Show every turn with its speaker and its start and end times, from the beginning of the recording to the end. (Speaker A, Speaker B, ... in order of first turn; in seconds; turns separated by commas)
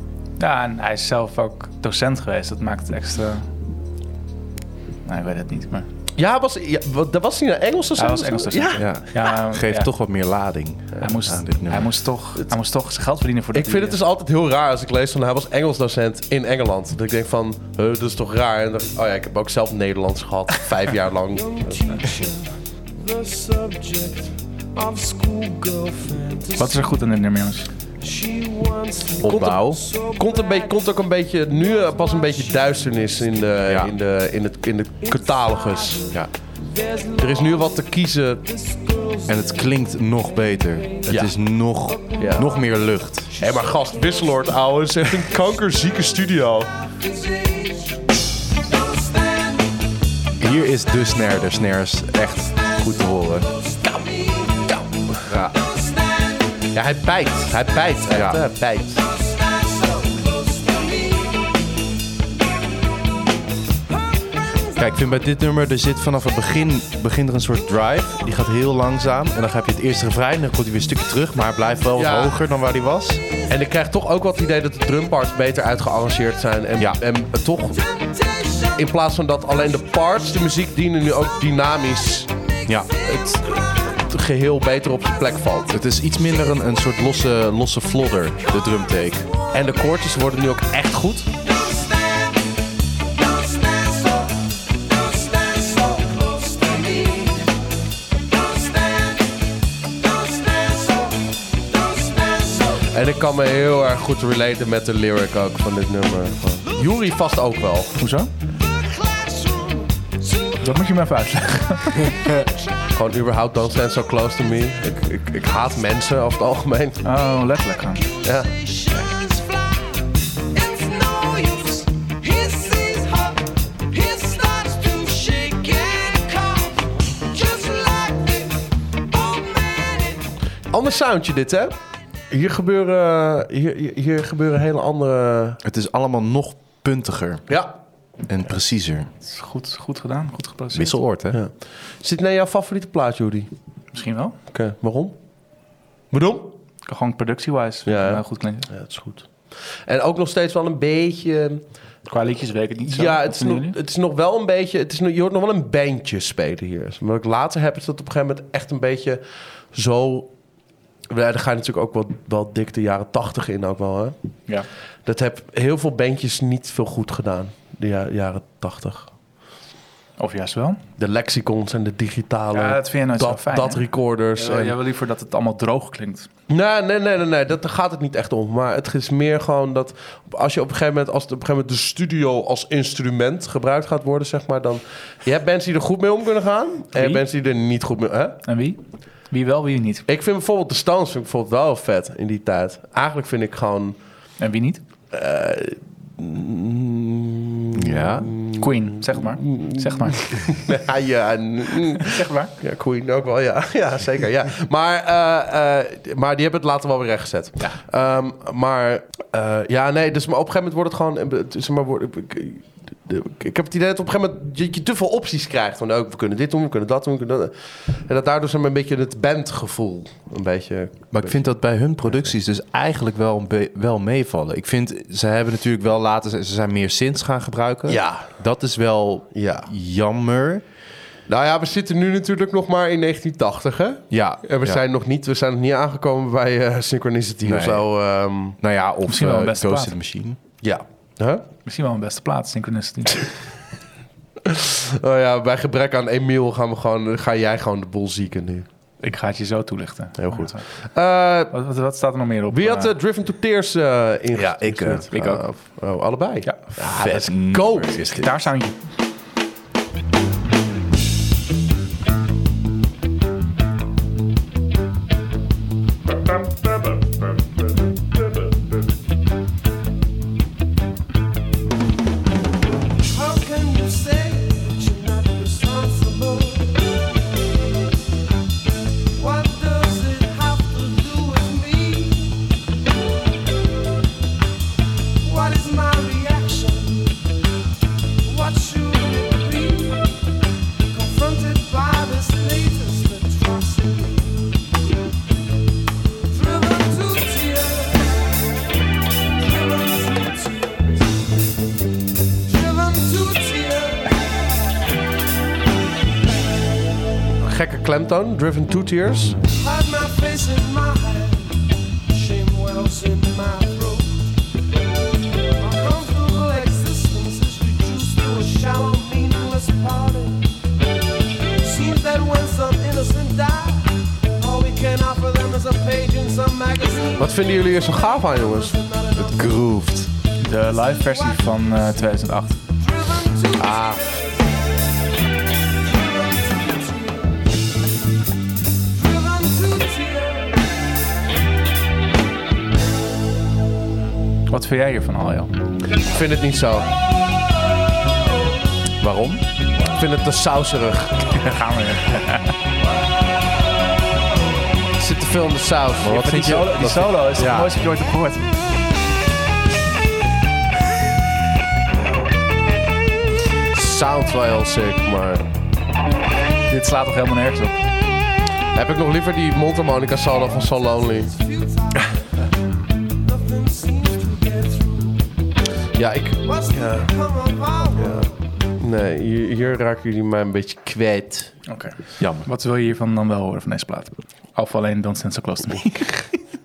Speaker A: 0.4-3.5, Speaker A: 5.1-5.9, Speaker B: 6.2-8.9, Speaker A: 8.0-9.9, Speaker C: 8.8-11.9, Speaker A: 11.0-14.0, Speaker B: 13.5-21.8, Speaker D: 21.3-26.8, Speaker A: 26.6-27.7, Speaker D: 28.0-30.9, Speaker C: 29.2-29.9, Speaker B: 29.2-36.1, Speaker D: 31.6-33.0, Speaker C: 33.7-33.9, Speaker D: 35.2-36.1, Speaker D: 36.7-37.8, Speaker B: 37.2-38.5, Speaker D: 38.5-39.5, Speaker C: 39.3-43.3, Speaker B: 41.1-41.4, Speaker B: 42.2-42.5, Speaker B: 43.4-46.7, Speaker D: 46.9-48.1, Speaker D: 48.6-49.8, Speaker C: 50.4-53.5, Speaker D: 53.5-54.8, Speaker C: 55.3-55.6, Speaker D: 55.5-56.5, Speaker B: 56.7-59.0, Speaker C: 58.1-58.4, Speaker D: 59.1-61.5, Speaker C: 64.8-73.2, Speaker B: 72.0-72.4, Speaker B: 73.5-77.8, Speaker B: 78.7-82.3, Speaker C: 82.7-82.9, Speaker B: 83.0-85.8, Speaker C: 85.7-89.3, Speaker B: 89.5-91.3, Speaker D: 91.6-92.0, Speaker D: 93.2-97.6, Speaker D: 98.3-102.9, Speaker B: 102.9-108.0, Speaker A: 108.0-108.3, Speaker D: 108.8-110.6, Speaker A: 110.6-112.2, Speaker B: 113.0-117.0, Speaker A: 117.0-118.1, Speaker D: 118.0-130.3, Speaker B: 118.2-118.5, Speaker B: 130.7-131.8, Speaker B: 132.3-135.6, Speaker C: 135.6-137.5, Speaker B: 137.5-137.7, Speaker C: 138.3-139.1, Speaker A: 139.2-141.0, Speaker C: 140.7-141.4, Speaker B: 141.3-143.5, Speaker A: 143.9-144.4, Speaker B: 144.5-145.2, Speaker B: 146.1-146.6, Speaker A: 146.9-148.7, Speaker B: 147.9-149.3, Speaker B: 149.9-151.6, Speaker A: 152.1-153.8, Speaker B: 152.9-159.2, Speaker B: 159.7-160.3, Speaker B: 161.1-164.2, Speaker B: 165.1-169.1, Speaker A: 170.2-170.8, Speaker B: 171.0-174.8, Speaker A: 172.5-176.3, Speaker B: 176.5-188.4, Speaker A: 186.9-187.2, Speaker A: 188.5-188.8, Speaker A: 189.3-190.1, Speaker B: 190.1-194.0, Speaker A: 194.4-194.8, Speaker B: 195.1-221.5, Speaker C: 197.7-198.3, Speaker A: 198.5-200.6, Speaker A: 202.0-202.5, Speaker C: 221.1-230.6, Speaker B: 227.9-228.3, Speaker B: 229.3-229.7, Speaker B: 231.3-238.6, Speaker C: 234.1-234.8, Speaker C: 237.4-237.9, Speaker C: 238.6-240.4, Speaker A: 239.1-239.9, Speaker B: 240.6-241.5, Speaker A: 241.7-243.3, Speaker B: 244.4-248.7, Speaker A: 249.0-250.7, Speaker B: 250.2-251.5, Speaker A: 251.5-252.9, Speaker B: 252.5-258.1, Speaker C: 254.3-255.1, Speaker A: 255.1-255.4, Speaker C: 256.8-258.5, Speaker A: 258.1-258.8, Speaker D: 273.1-276.9, Speaker D: 279.1-282.4, Speaker D: 285.2-287.2, Speaker D: 288.2-290.1, Speaker D: 290.9-294.5, Speaker D: 296.3-298.2, Speaker D: 299.4-301.2, Speaker D: 302.4-304.2, Speaker B: 307.4-309.4, Speaker D: 309.5-314.3, Speaker D: 315.6-320.5, Speaker D: 321.6-327.6, Speaker B: 327.2-328.7, Speaker D: 328.3-329.6, Speaker C: 329.1-330.1, Speaker A: 330.4-332.6, Speaker D: 330.7-331.8, Speaker D: 332.7-334.6, Speaker B: 333.6-334.0, Speaker D: 335.8-337.5, Speaker D: 338.9-340.7, Speaker A: 344.5-345.5, Speaker B: 346.0-346.9, Speaker C: 349.0-349.4, Speaker B: 349.9-351.5, Speaker A: 351.4-352.6, Speaker B: 355.0-356.5, Speaker C: 356.0-357.7, Speaker A: 356.1-358.4, Speaker B: 363.7-365.4, Speaker A: 366.7-367.7, Speaker B: 368.7-371.3, Speaker D: 370.5-372.1, Speaker D: 373.2-375.3, Speaker B: 375.9-377.1, Speaker D: 376.4-378.3, Speaker B: 377.9-381.6, Speaker A: 381.7-386.3, Speaker C: 382.2-382.5